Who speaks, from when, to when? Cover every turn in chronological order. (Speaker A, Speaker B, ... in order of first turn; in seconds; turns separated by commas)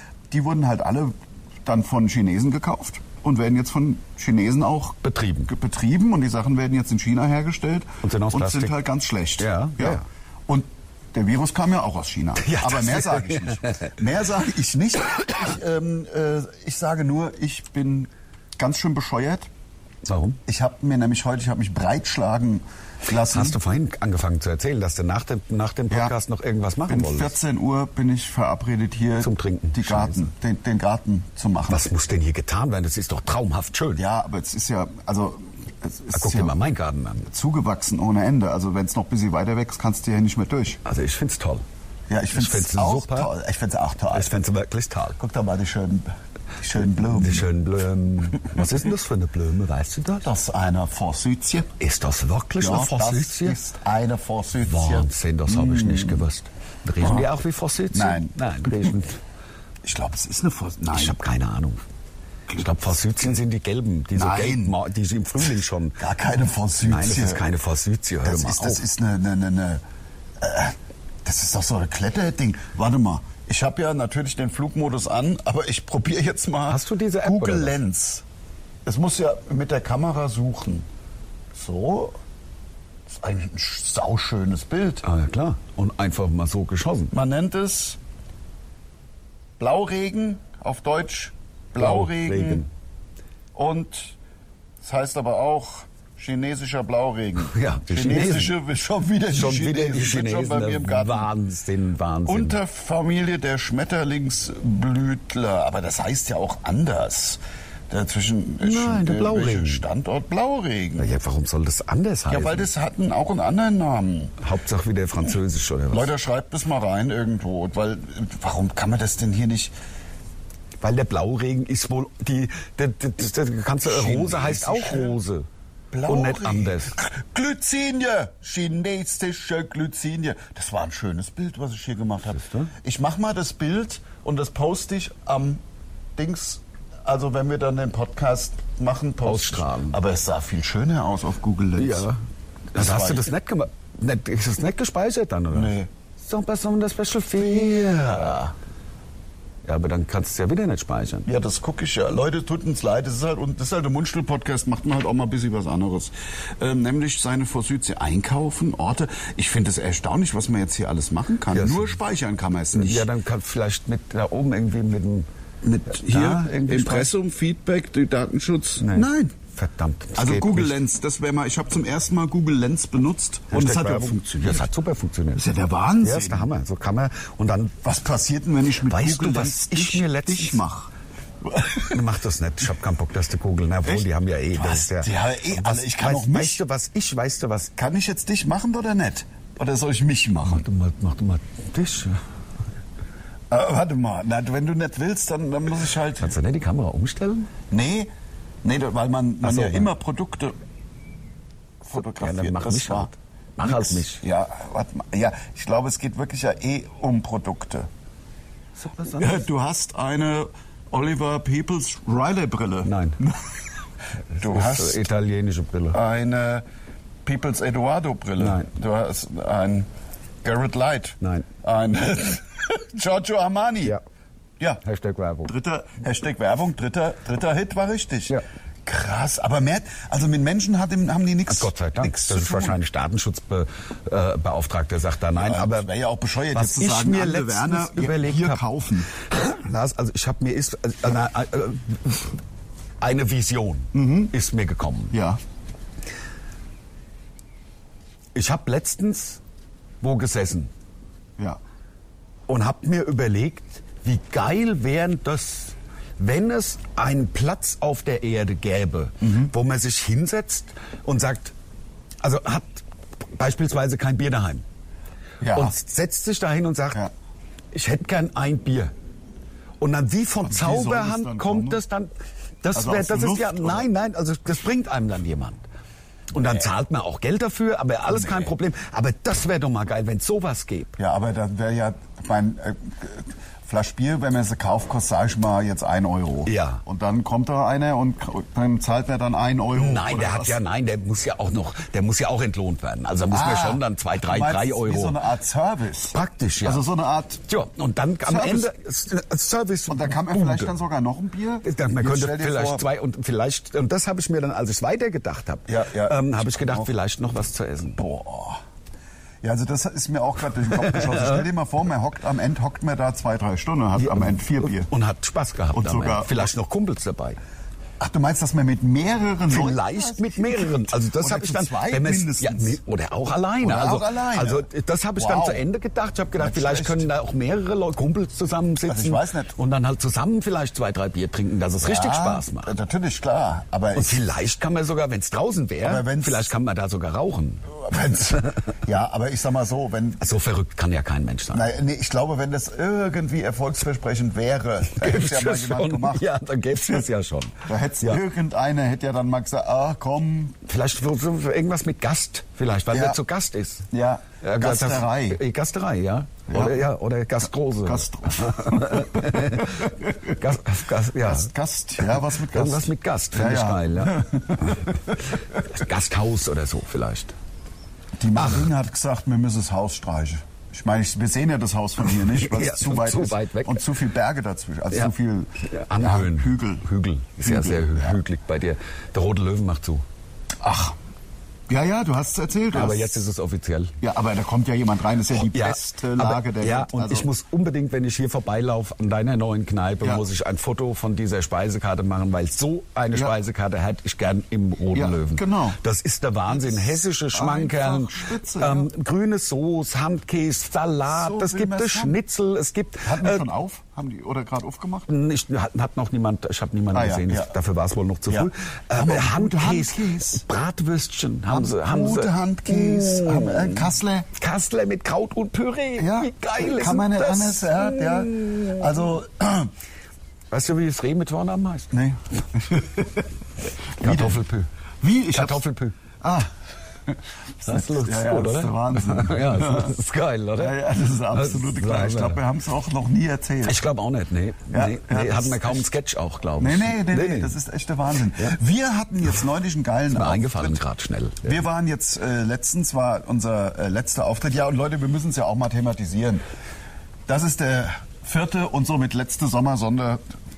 Speaker A: 0.3-19.5, Speaker B: 5.0-5.5, Speaker B: 8.0-8.8, Speaker B: 9.4-10.1, Speaker B: 12.4-13.9, Speaker B: 20.0-20.4, Speaker A: 20.4-23.6, Speaker B: 23.2-27.3, Speaker A: 26.9-31.9, Speaker B: 29.2-30.3, Speaker B: 31.7-34.0, Speaker A: 34.0-36.6, Speaker B: 36.1-37.3, Speaker A: 37.3-40.8, Speaker B: 40.8-41.6, Speaker A: 42.1-44.3, Speaker B: 42.3-43.3, Speaker B: 44.1-45.2, Speaker A: 45.2-46.1, Speaker A: 46.6-47.5, Speaker B: 47.0-50.3, Speaker A: 50.2-51.7, Speaker B: 51.8-53.6, Speaker A: 52.6-56.2, Speaker B: 54.6-59.2, Speaker A: 57.0-57.3, Speaker A: 57.9-58.9, Speaker A: 59.8-61.2, Speaker B: 60.9-61.8, Speaker B: 62.5-66.0, Speaker A: 64.1-64.8, Speaker A: 66.0-67.4, Speaker B: 66.8-68.8, Speaker A: 68.2-69.8, Speaker A: 70.4-78.2, Speaker B: 76.7-77.8, Speaker A: 78.8-80.8, Speaker A: 81.5-82.2, Speaker A: 83.1-85.0, Speaker B: 85.0-87.1, Speaker A: 87.1-88.0, Speaker A: 89.6-92.6, Speaker B: 91.8-92.7, Speaker A: 93.5-94.2, Speaker A: 94.8-101.3, Speaker B: 97.5-98.5, Speaker B: 99.3-102.6, Speaker A: 102.3-111.1, Speaker B: 108.6-109.8, Speaker B: 111.0-112.7, Speaker A: 112.3-114.3, Speaker B: 114.4-116.1, Speaker A: 115.9-119.7, Speaker B: 120.8-125.5, Speaker A: 123.8-125.2, Speaker A: 125.9-135.6, Speaker B: 126.1-127.0, Speaker B: 132.3-132.7, Speaker A: 136.2-142.1, Speaker B: 139.2-140.0, Speaker B: 141.8-142.2, Speaker B: 142.7-148.5, Speaker A: 142.8-143.3, Speaker A: 145.5-145.9, Speaker A: 147.6-148.4, Speaker B: 149.6-151.2, Speaker A: 151.2-163.1, Speaker B: 161.5-162.0, Speaker B: 162.7-165.3, Speaker A: 165.6-169.3, Speaker B: 165.9-167.1, Speaker B: 168.8-170.7, Speaker A: 170.2-174.7, Speaker B: 173.5-175.5, Speaker A: 175.3-176.5, Speaker B: 176.0-177.8, Speaker A: 177.8-180.9, Speaker B: 178.8-180.6, Speaker A: 181.4-182.0, Speaker B: 181.8-187.7, Speaker A: 183.8-186.6, Speaker A: 187.8-190.6, Speaker B: 190.4-192.2, Speaker A: 193.5-196.3, Speaker B: 196.2-197.5, Speaker A: 197.7-198.1, Speaker A: 198.6-200.5, Speaker B: 199.4-199.9, Speaker A: 201.8-203.1, Speaker B: 202.2-204.2, Speaker A: 203.6-207.9, Speaker B: 208.8-209.4, Speaker A: 209.1-213.6, Speaker B: 212.8-213.2, Speaker B: 214.3-216.0, Speaker A: 214.4-215.0, Speaker A: 215.9-216.6, Speaker A: 217.2-219.9, Speaker B: 218.4-218.7, Speaker A: 220.4-224.0, Speaker B: 221.2-221.5, Speaker B: 224.8-225.5, Speaker A: 225.4-232.8, Speaker B: 231.5-235.9, Speaker A: 235.4-239.1, Speaker B: 236.5-238.6, Speaker B: 239.3-242.3, Speaker B: 243.0-245.2, Speaker A: 243.9-244.3, Speaker A: 245.1-245.4, Speaker B: 248.3-249.4, Speaker B: 250.0-250.7, Speaker B: 252.5-261.5, Speaker A: 259.2-259.5, Speaker B: 262.2-262.8, Speaker B: 263.4-264.6, Speaker A: 265.4-265.7, Speaker B: 265.5-267.1, Speaker B: 267.7-268.9, Speaker B: 269.8-272.1, Speaker A: 270.4-271.8, Speaker B: 272.6-275.6, Speaker A: 272.7-273.9, Speaker B: 276.3-281.0, Speaker A: 278.1-278.5, Speaker A: 281.0-290.6, Speaker B: 286.4-286.8, Speaker B: 289.7-295.2, Speaker A: 293.3-297.4, Speaker B: 296.1-296.8, Speaker B: 297.5-300.7, Speaker A: 298.2-298.7, Speaker A: 299.9-302.8, Speaker B: 301.6-308.0, Speaker A: 305.7-306.9, Speaker A: 308.0-308.6, Speaker A: 309.4-314.9, Speaker B: 310.7-311.4, Speaker B: 313.9-317.4, Speaker A: 315.7-316.5, Speaker A: 318.0-322.8, Speaker B: 319.5-332.7, Speaker A: 323.6-324.6, Speaker A: 325.2-325.6, Speaker A: 326.4-327.1, Speaker A: 328.9-329.5, Speaker A: 331.8-334.2, Speaker B: 333.9-338.6, Speaker A: 335.8-336.5, Speaker A: 337.7-340.3, Speaker B: 340.2-341.7, Speaker A: 341.5-346.3, Speaker B: 344.9-348.2, Speaker A: 347.6-350.6, Speaker B: 350.6-353.9, Speaker A: 352.9-353.2, Speaker A: 353.9-355.4, Speaker B: 354.4-361.5, Speaker A: 356.5-356.8, Speaker A: 357.8-360.4, Speaker A: 361.2-365.2, Speaker B: 362.5-367.3, Speaker A: 368.2-376.8, Speaker B: 368.3-368.7, Speaker B: 372.3-373.9, Speaker B: 375.6-380.0, Speaker A: 377.4-378.2, Speaker A: 380.6-380.9, Speaker A: 381.7-383.1, Speaker B: 382.7-383.9, Speaker A: 384.0-387.3, Speaker B: 385.5-403.4, Speaker A: 394.9-395.8, Speaker A: 396.5-398.9, Speaker A: 401.1-402.2, Speaker A: 403.0-405.1, Speaker B: 405.1-418.8, Speaker A: 406.9-407.5, Speaker A: 408.3-410.4, Speaker A: 411.5-414.3, Speaker A: 416.0-419.7, Speaker B: 420.5-421.9, Speaker A: 421.9-423.3, Speaker B: 424.0-424.7, Speaker A: 424.0-424.4, Speaker A: 425.0-425.6, Speaker B: 425.3-426.0, Speaker A: 426.2-426.5, Speaker A: 427.1-429.9, Speaker B: 427.6-432.4, Speaker A: 430.6-433.8, Speaker B: 433.6-437.5, Speaker A: 434.7-435.9, Speaker A: 436.6-440.8, Speaker B: 440.1-441.5, Speaker A: 441.4-446.4, Speaker A: 447.3-450.2